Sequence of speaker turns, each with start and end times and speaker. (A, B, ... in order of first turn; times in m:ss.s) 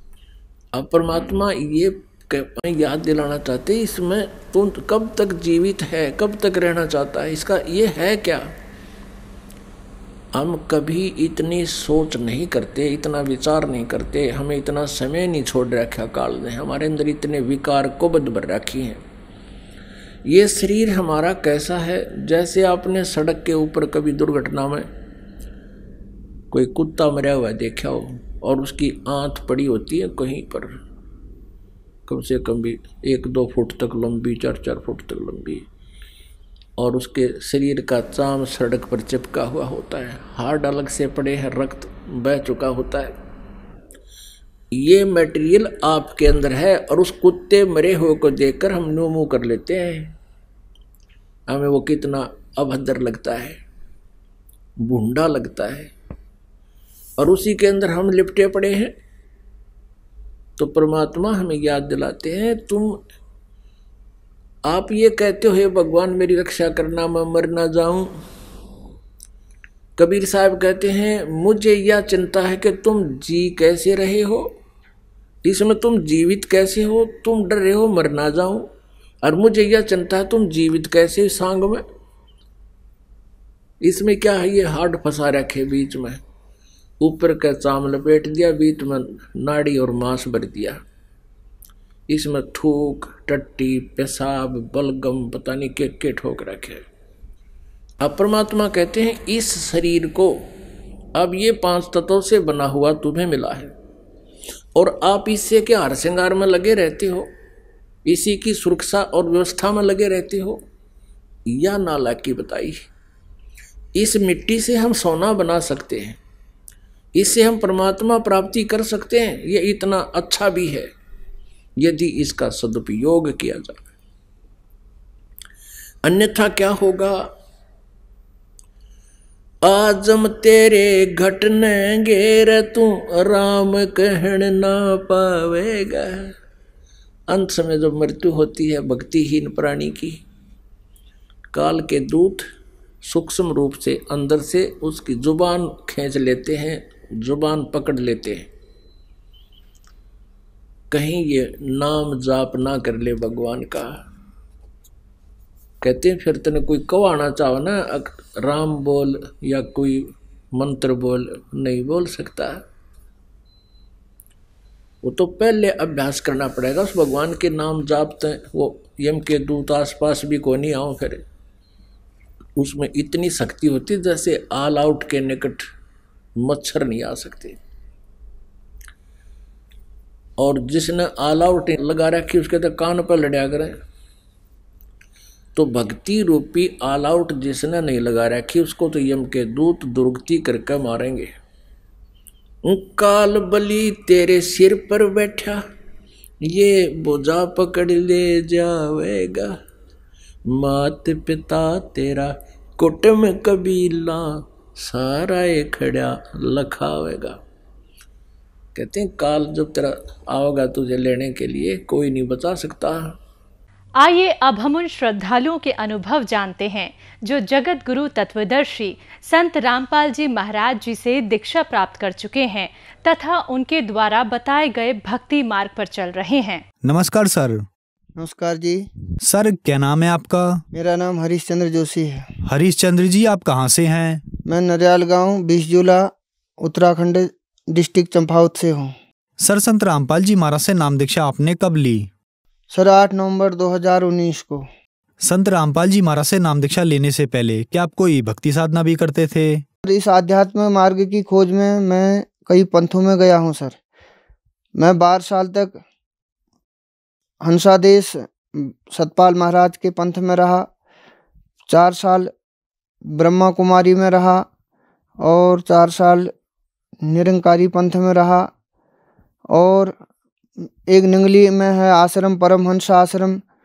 0:00.8-0:08.5 A
0:10.4-0:19.0 A
0:20.3-0:24.9 A
0:26.5-0:30.8 A
0:32.1-0:35.7 A
0:36.8-0:43.1 A
0:44.8-0:50.1 A
0:51.5-0:53.6 A
0:54.8-0:55.9 A
0:57.2-0:58.9 A
1:00.6-1:03.0 A
1:04.7-1:08.1 A
1:10.0-1:14.5 A
1:15.4-1:18.7 A
1:19.2-1:21.8 A
1:23.8-1:26.2 A
1:27.0-1:30.8 A
1:32.1-1:36.8 A
1:38.0-1:40.5 A
1:41.2-1:43.7 A
1:44.8-1:47.3 A
1:48.1-1:50.6 A
1:51.5-1:52.8 A
1:54.0-1:56.2 A
1:57.2-2:00.9 A
2:01.8-2:03.8 A
2:06.0-2:07.2 A
2:09.6-2:16.3 A
2:17.3-2:20.2 A
2:21.5-2:22.4 A
2:23.0-2:28.5 A
2:30.9-2:33.9 A
2:35.8-2:42.6 A
2:45.0-2:51.2 A
2:52.6-2:55.7 A
2:56.4-2:57.6 A
3:00.4-3:03.8 A
3:05.6-3:11.3 A
3:12.6-3:15.6 A
3:16.5-3:19.6 A
3:20.5-3:27.4 A
3:28.8-3:33.1 A
3:34.0-3:46.6 B
3:46.8-3:47.6 C
3:48.2-3:48.9 D
3:49.2-3:50.6 C
3:50.7-3:52.3 D
3:52.5-3:54.2 C
3:54.5-3:59.0 D
3:59.4-4:02.1 C
4:02.7-4:04.7 D
4:05.2-4:09.6 C
4:09.9-4:13.8 D
4:14.8-4:15.8 D
4:17.4-4:20.7 D
4:21.7-4:22.3 D
4:23.1-4:24.5 D
4:25.2-4:26.3 D
4:27.1-4:28.5 D
4:29.5-4:30.0 D
4:30.9-4:33.4 D